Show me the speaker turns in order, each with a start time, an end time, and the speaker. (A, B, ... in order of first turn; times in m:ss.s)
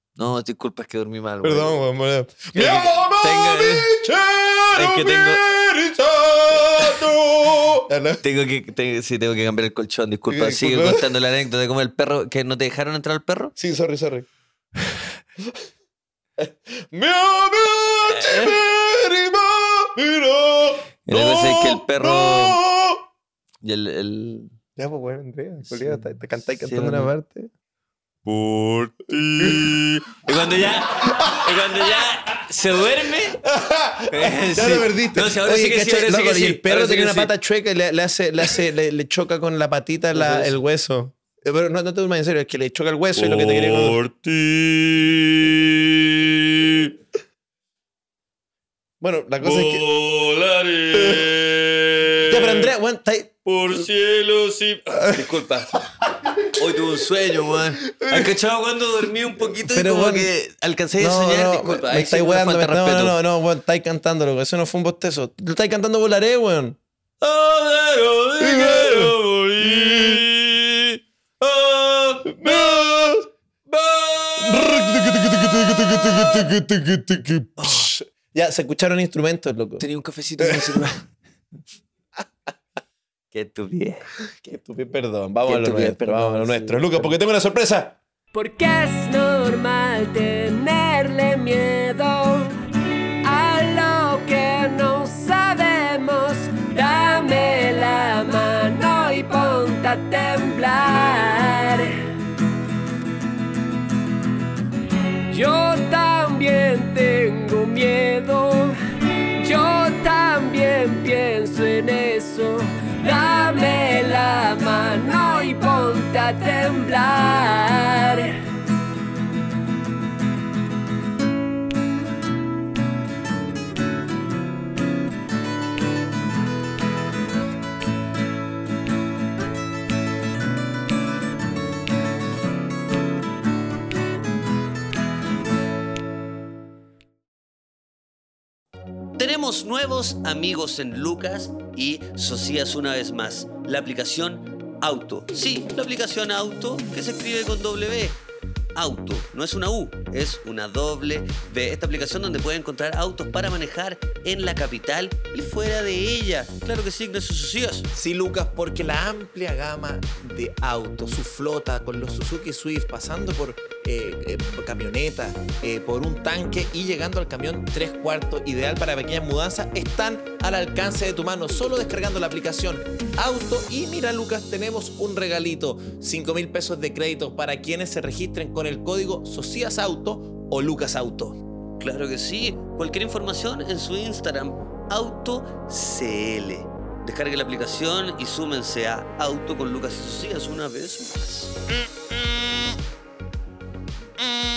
0:00.2-0:01.8 A
0:01.4-0:08.2 B
0:02.5-0:03.9 A
0:04.8-0:05.4 A
0:08.2-0:13.6 A
0:10.3-0:11.1 B
0:13.6-0:14.3 B
0:16.4-0:23.0 B
0:18.1-0:18.6 A
0:21.1-0:22.6 A
0:23.6-0:24.6 A
0:24.8-0:27.5 B
0:25.7-0:26.1 A
0:26.6-0:27.1 A
0:28.2-0:33.4 A
0:29.4-0:32.4 B
0:33.4-0:44.0 B
0:34.1-0:37.3 A
0:40.1-0:40.6 A
0:43.2-0:47.0 A
0:49.0-0:49.9 B
0:49.4-0:52.7 A
0:50.9-0:51.4 B
0:52.2-0:53.4 B
0:53.4-0:55.9 A
0:55.0-0:56.5 B
0:56.4-1:03.2 A
0:57.8-0:58.4 B
0:59.5-1:00.3 B
1:01.0-1:06.8 B
1:07.2-1:12.9 A
1:08.4-1:10.2 B
1:12.3-1:13.3 B
1:13.7-1:16.3 A
1:14.4-1:19.8 B
1:17.6-1:17.9 A
1:19.8-1:21.1 A
1:20.4-1:20.9 B
1:23.3-1:24.5 A
1:24.4-1:28.0 B
1:25.5-1:27.1 A
1:28.3-1:32.6 C
1:33.2-1:42.1 C
1:45.3-1:48.8 C
1:49.4-1:58.4 C
2:19.2-2:28.2 A
2:28.8-2:37.9 A
2:37.9-3:01.4 B
3:01.8-3:11.6 A